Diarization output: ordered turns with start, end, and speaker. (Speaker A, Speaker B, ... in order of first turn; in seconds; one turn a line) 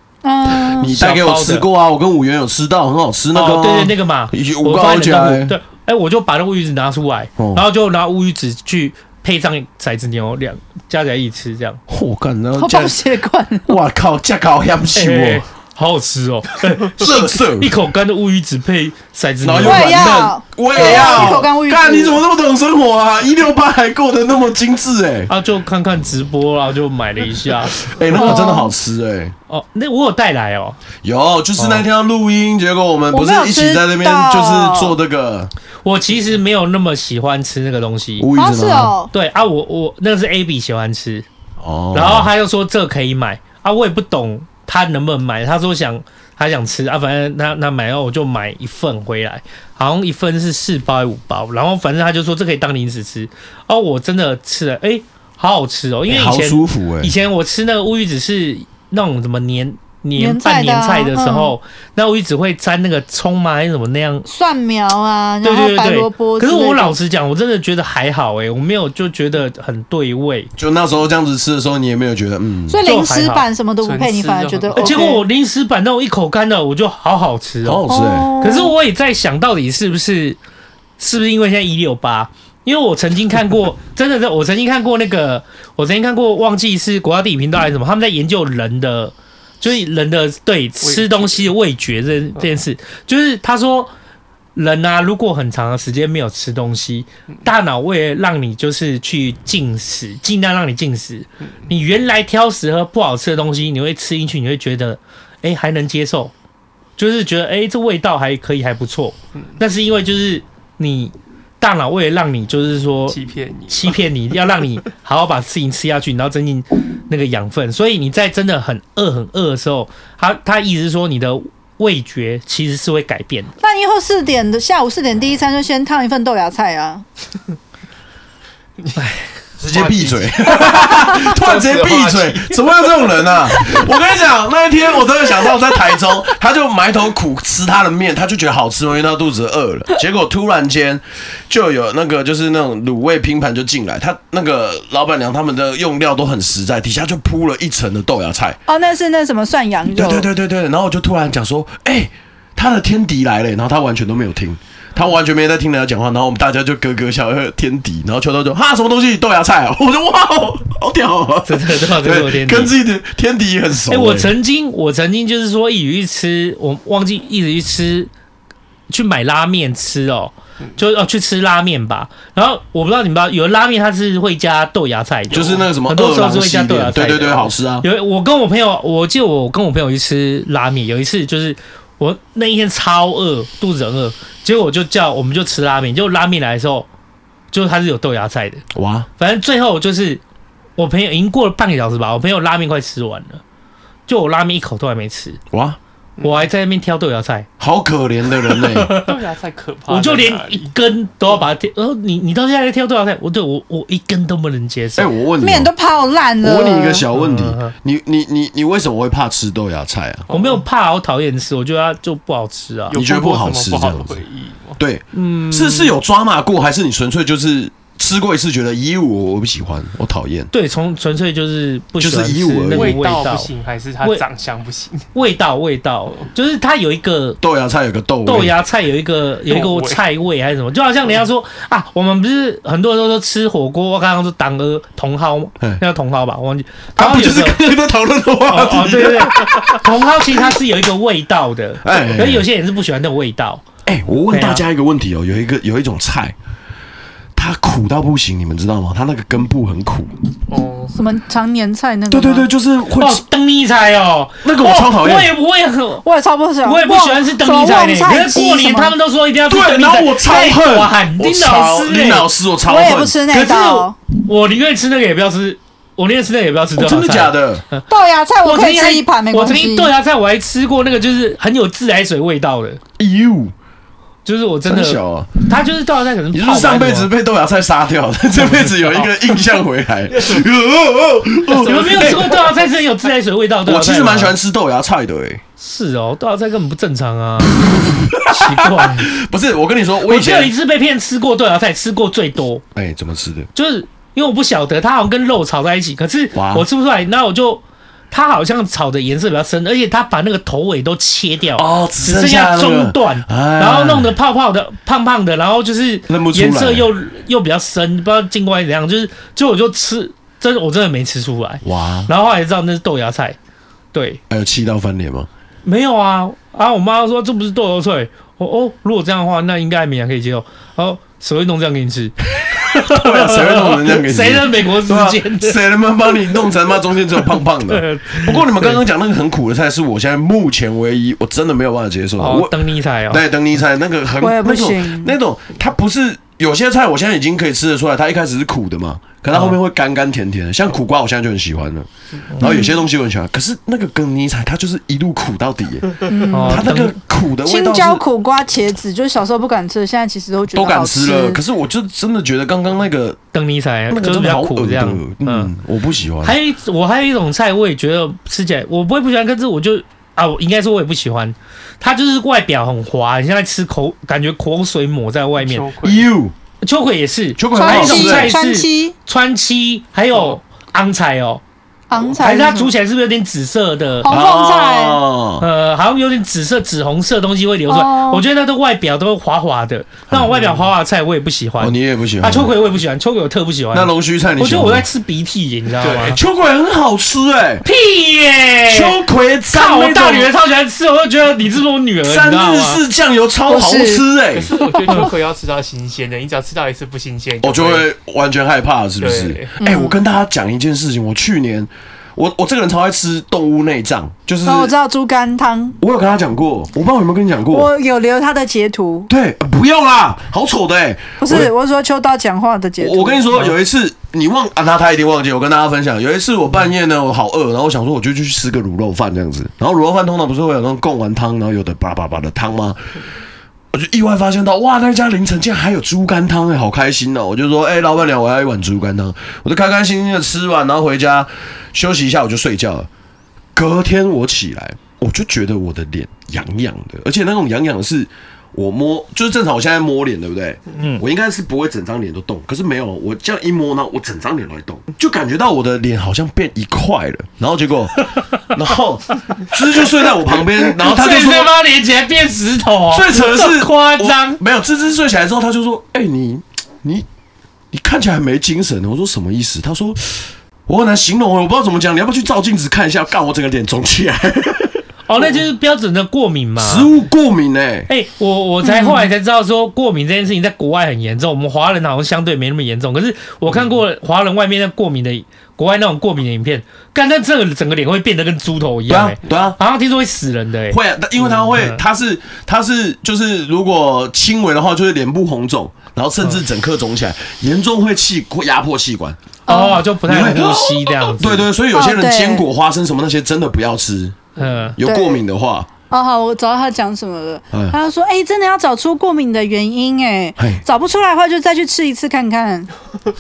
Speaker A: 0.2-0.9
Speaker B: 0.6-5.5
Speaker C: 0.8-1.6
Speaker C: 3.3-11.8
Speaker B: 7.4-7.6
Speaker B: 11.9-13.0
Speaker A: 12.6-13.8
Speaker B: 13.7-15.4
Speaker C: 14.9-21.3
Speaker B: 17.0-17.7
Speaker B: 19.4-25.3
Speaker A: 19.6-22.2
Speaker C: 25.3-28.4
Speaker B: 27.9-29.3
Speaker A: 28.1-28.7
Speaker C: 29.5-30.8
Speaker B: 31.0-35.5
Speaker A: 33.1-34.9
Speaker C: 35.8-38.3
Speaker B: 38.2-38.9
Speaker A: 38.4-39.1
Speaker C: 39.1-41.2
Speaker B: 41.6-42.3
Speaker C: 41.9-64.3
Speaker B: 56.1-57.1
Speaker A: 60.1-61.5
Speaker A: 64.3-67.0
Speaker C: 65.4-70.5
Speaker B: 70.6-72.8
Speaker A: 72.7-75.2
Speaker C: 72.8-73.5
Speaker D: 73.8-75.2
Speaker C: 74.7-80.4
Speaker B: 77.6-78.3
Speaker A: 77.9-78.7
Speaker C: 81.0-93.9
Speaker D: 90.8-91.5
Speaker C: 94.5-106.3
Speaker C: 107.0-123.5
Speaker D: 113.1-114.0
Speaker A: 123.6-127.0
Speaker C: 129.0-129.2
Speaker D: 129.6-133.8
Speaker B: 129.6-148.6
Speaker A: 148.7-150.2
Speaker B: 149.9-164.3
Speaker C: 161.4-162.7
Speaker C: 163.9-168.1
Speaker C: 168.9-186.9
Speaker B: 175.3-177.8
Speaker C: 187.5-188.6
Speaker B: 188.7-189.1
Speaker C: 189.2-190.2
Speaker C: 190.8-193.4
Speaker C: 194.1-195.4
Speaker B: 195.5-195.8
Speaker D: 196.2-196.4
Speaker C: 196.2-197.5
Speaker B: 197.6-198.9
Speaker C: 198.5-199.1
Speaker D: 198.9-200.7
Speaker C: 199.9-205.1
Speaker B: 205.0-205.7
Speaker A: 205.4-207.1
Speaker B: 206.4-210.3
Speaker C: 207.1-207.7
Speaker D: 210.3-210.6
Speaker C: 210.3-213.0
Speaker D: 212.9-214.8
Speaker B: 212.9-214.2
Speaker B: 214.8-220.5
Speaker C: 215.1-215.9
Speaker C: 220.5-223.5
Speaker B: 222.0-223.0
Speaker D: 222.7-225.1
Speaker C: 225.1-227.4
Speaker B: 227.4-228.5
Speaker C: 228.2-237.6
Speaker D: 229.5-230.0
Speaker B: 237.0-239.9
Speaker C: 238.5-243.6
Speaker B: 241.8-242.4
Speaker B: 243.8-246.3
Speaker C: 244.3-244.6
Speaker B: 247.3-250.1
Speaker D: 250.5-250.9
Speaker A: 250.9-252.5
Speaker B: 252.1-253.2
Speaker C: 253.0-256.0
Speaker B: 254.4-255.3
Speaker A: 256.0-258.9
Speaker C: 256.6-262.3
Speaker B: 259.5-263.1
Speaker A: 262.6-263.9
Speaker C: 263.3-267.8
Speaker B: 266.8-267.6
Speaker A: 267.9-269.9
Speaker C: 268.4-272.8
Speaker B: 273.0-273.5
Speaker C: 274.2-277.1
Speaker B: 274.7-275.4
Speaker B: 276.3-282.4
Speaker C: 278.5-279.1
Speaker D: 281.5-282.7
Speaker C: 281.6-284.3
Speaker B: 283.6-285.4
Speaker C: 285.6-289.1
Speaker B: 287.6-290.5
Speaker C: 290.0-292.6
Speaker B: 292.7-293.5
Speaker C: 293.5-313.4
Speaker B: 296.3-296.6
Speaker B: 301.6-304.1
Speaker B: 306.1-306.9
Speaker B: 311.6-312.1
Speaker C: 313.9-314.2
Speaker B: 314.3-315.3
Speaker C: 315.6-325.6
Speaker B: 322.8-332.5
Speaker C: 327.7-328.8
Speaker C: 332.2-333.2
Speaker B: 333.1-341.9
Speaker A: 334.2-335.1
Speaker C: 339.3-339.6
Speaker C: 342.3-342.6
Speaker B: 342.4-348.0
Speaker A: 342.4-342.8
Speaker A: 346.1-346.6
Speaker C: 346.3-347.0
Speaker A: 347.4-351.4
Speaker B: 350.5-353.2
Speaker C: 353.3-355.5
Speaker B: 353.9-356.4
Speaker C: 356.2-365.7
Speaker D: 365.4-366.1
Speaker B: 365.8-366.3
Speaker C: 366.6-371.4
Speaker B: 367.4-368.3
Speaker A: 367.5-368.9
Speaker A: 371.9-372.7
Speaker C: 372.2-374.1
Speaker A: 374.0-375.0
Speaker B: 374.1-375.4
Speaker C: 375.4-386.2
Speaker A: 377.7-378.2
Speaker B: 380.1-380.5
Speaker B: 381.6-382.5
Speaker B: 383.7-384.9
Speaker D: 385.8-386.2
Speaker B: 386.1-387.6
Speaker C: 387.6-389.0
Speaker B: 388.7-390.3
Speaker C: 389.5-392.8
Speaker B: 392.0-394.5
Speaker A: 393.5-394.0
Speaker D: 394.3-397.9
Speaker B: 397.4-404.7
Speaker D: 399.0-399.6
Speaker A: 399.6-400.0
Speaker A: 404.4-405.8
Speaker B: 405.8-407.7
Speaker A: 407.5-409.1
Speaker B: 409.1-411.5
Speaker A: 411.2-413.3
Speaker B: 412.8-422.8
Speaker B: 423.7-432.9
Speaker B: 433.5-451.5
Speaker C: 450.6-454.4
Speaker B: 452.9-457.1
Speaker B: 457.7-465.4
Speaker C: 465.1-466.9
Speaker B: 466.6-467.9
Speaker C: 467.9-480.8
Speaker A: 468.6-469.1
Speaker B: 478.9-479.6
Speaker B: 480.7-489.2
Speaker C: 481.3-481.8
Speaker A: 489.5-489.8
Speaker C: 489.5-491.5
Speaker B: 490.1-494.2
Speaker A: 491.7-492.4
Speaker C: 494.4-494.8
Speaker B: 494.8-495.7
Speaker A: 494.8-495.2
Speaker A: 495.9-502.7
Speaker B: 500.4-500.6